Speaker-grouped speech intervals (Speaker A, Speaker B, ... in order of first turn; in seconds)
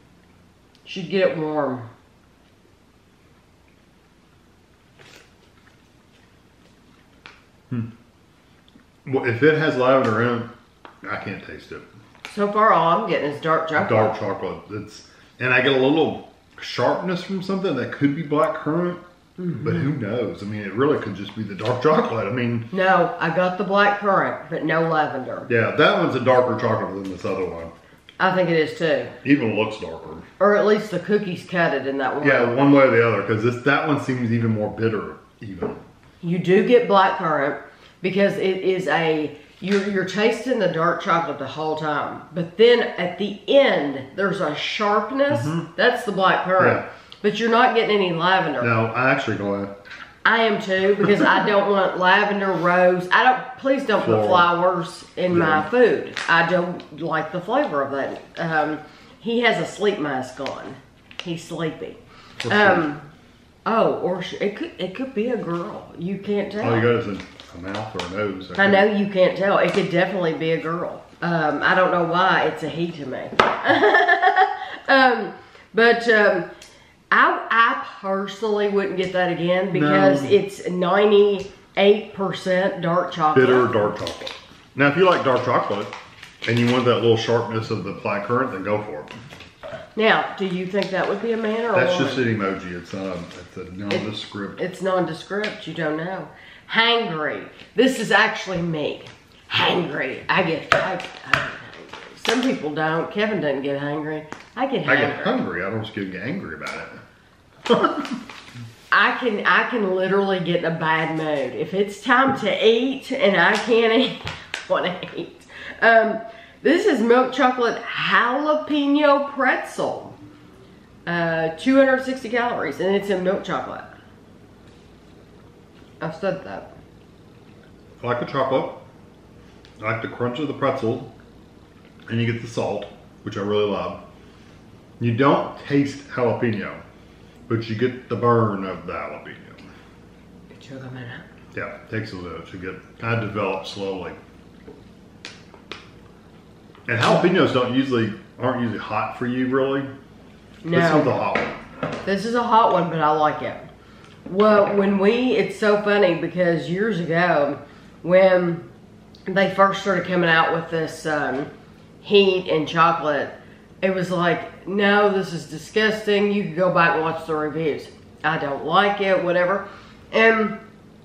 Speaker A: 0.8-1.9, 12.3-14.2, 19.4-19.9, 22.7-25.5, 28.2-29.1, 30.4-32.5, 36.2-48.7, 50.2-63.1, 63.7-66.9, 68.6-76.5, 77.1-83.9, 90.0-92.3, 93.9-105.4, 108.9-120.2, 121.1-123.9, 126.0-126.7, 140.5-141.2, 150.6-151.2, 152.0-153.7, 154.3-158.7, 159.3-161.5, 162.0-170.6
Speaker B: 9.1-10.5, 11.0-11.9, 13.8-19.0, 19.5-22.7, 25.5-27.7, 29.2-30.3, 32.2-35.8, 45.3-45.7, 46.6-46.8, 48.6-49.7, 54.0-54.5, 55.3-55.7, 62.4-62.9, 66.6-68.9, 79.7-80.4, 83.3-85.9, 86.5-89.2, 91.7-94.6, 104.9-107.0, 107.7-108.2, 128.0-128.8, 129.8-131.1, 132.1-134.0, 135.0-136.8, 137.5-139.7, 141.5-144.2, 146.9-149.9, 150.7-151.6